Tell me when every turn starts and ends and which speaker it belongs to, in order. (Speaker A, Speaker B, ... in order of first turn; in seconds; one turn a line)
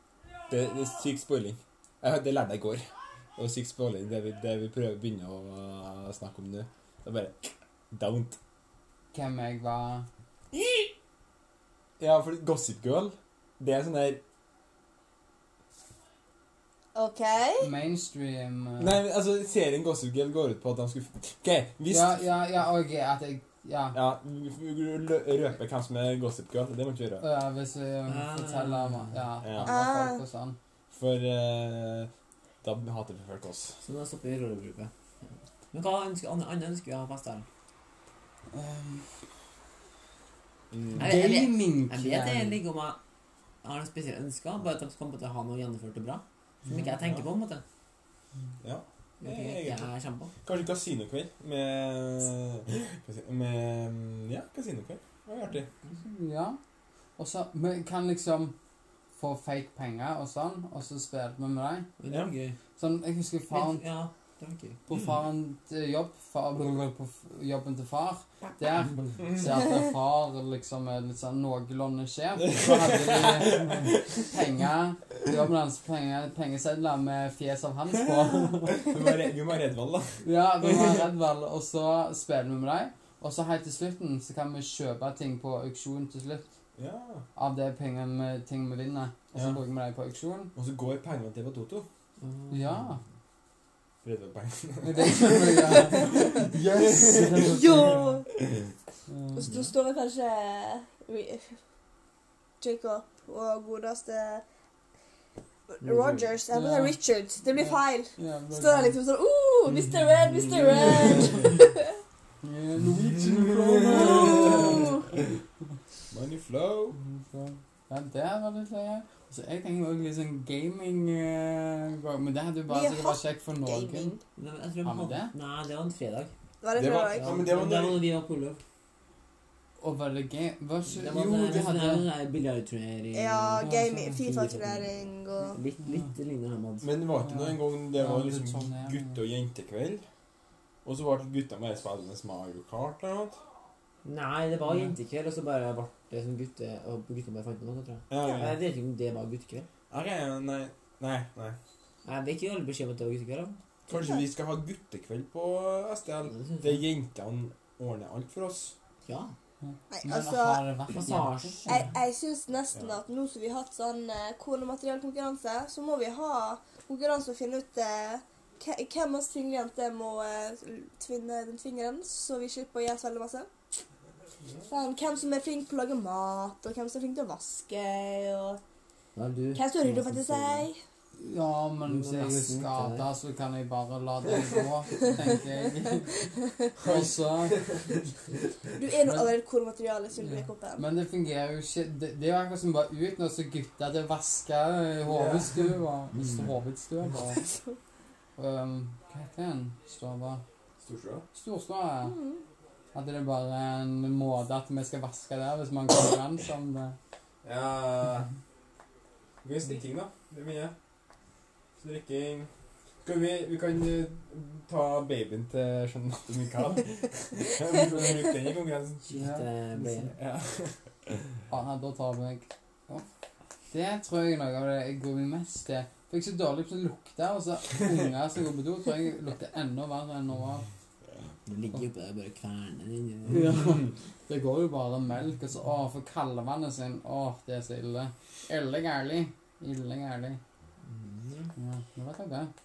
Speaker A: 0.5-8.4
Speaker B: 9.1-10.1
Speaker A: 12.0-14.2
Speaker C: 16.9-17.7
Speaker B: 17.6-19.0
Speaker A: 18.8-22.2
Speaker B: 21.9-24.0
Speaker A: 23.9-27.2
Speaker B: 27.2-30.6
Speaker D: 28.1-29.2
Speaker A: 29.4-29.8
Speaker C: 29.7-30.2
Speaker A: 30.9-32.1
Speaker A: 32.6-33.8
Speaker D: 33.8-34.9
Speaker D: 35.7-37.5
Speaker B: 38.5-39.1
Speaker A: 40.7-41.1
Speaker B: 41.0-42.6
Speaker D: 41.0-43.0
Speaker D: 43.6-47.6
Speaker B: 46.7-46.9
Speaker A: 47.0-47.3
Speaker A: 48.6-49.9
Speaker D: 49.2-50.3
Speaker A: 50.4-55.7
Speaker B: 56.0-56.6
Speaker B: 57.2-58.5
Speaker B: 59.2-61.9
Speaker D: 62.0-62.6
Speaker B: 62.8-63.9
Speaker D: 63.5-64.8
Speaker B: 64.9-78.9
Speaker A: 72.6-74.2
Speaker A: 78.7-81.1
Speaker B: 80.2-86.5
Speaker A: 86.8-87.2
Speaker B: 87.3-90.5
Speaker A: 89.3-89.6
Speaker A: 90.5-91.9
Speaker D: 92.2-92.9
Speaker B: 92.5-93.0
Speaker A: 94.0-98.0
Speaker B: 94.8-98.2
Speaker C: 97.4-98.3
Speaker B: 99.1-99.5
Speaker C: 99.3-101.6
Speaker D: 99.5-99.7
Speaker C: 102.6-104.4
Speaker C: 105.7-112.0
Speaker D: 105.8-106.3
Speaker B: 106.5-107.0
Speaker B: 107.5-109.0
Speaker B: 112.4-115.2
Speaker A: 113.3-114.7
Speaker C: 113.9-115.0
Speaker A: 116.1-117.0
Speaker B: 117.0-124.1
Speaker C: 122.7-124.2
Speaker D: 124.4-126.3
Speaker B: 124.8-125.3
Speaker C: 126.6-127.5
Speaker A: 126.8-128.1
Speaker D: 127.2-128.6
Speaker B: 129.8-132.1
Speaker D: 130.9-133.7
Speaker A: 131.4-131.7
Speaker C: 133.1-135.6
Speaker B: 133.6-134.3
Speaker D: 134.3-136.9
Speaker A: 136.8-140.1
Speaker B: 137.2-139.2
Speaker A: 140.8-143.4
Speaker D: 144.0-149.7
Speaker A: 148.1-148.6
Speaker A: 149.9-151.6
Speaker D: 152.1-153.6
Speaker A: 153.9-158.8
Speaker C: 153.9-154.2
Speaker D: 156.3-156.8
Speaker D: 159.1-159.4
Speaker B: 159.6-161.9
Speaker C: 159.9-160.6
Speaker D: 160.9-161.8
Speaker C: 161.7-173.5
Speaker C: 174.7-178.6
Speaker D: 179.2-180.7
Speaker C: 179.5-180.8
Speaker B: 181.2-186.2
Speaker D: 181.9-183.1
Speaker C: 186.2-186.7
Speaker B: 186.8-187.6
Speaker A: 186.8-187.9
Speaker C: 188.8-190.8
Speaker B: 190.2-197.4
Speaker A: 195.0-195.7
Speaker D: 196.1-196.6
Speaker B: 198.4-200.4
Speaker A: 200.8-201.2
Speaker B: 201.3-202.2
Speaker C: 202.0-202.4
Speaker B: 202.9-207.0
Speaker A: 207.4-208.3
Speaker A: 209.4-210.7
Speaker A: 211.8-212.5
Speaker A: 213.0-219.1
Speaker D: 219.1-220.1
Speaker B: 219.1-220.0
Speaker A: 220.2-221.1
Speaker B: 221.5-223.1
Speaker B: 223.7-230.7
Speaker D: 231.5-233.6
Speaker B: 233.3-240.4
Speaker D: 240.9-241.5
Speaker B: 241.6-242.5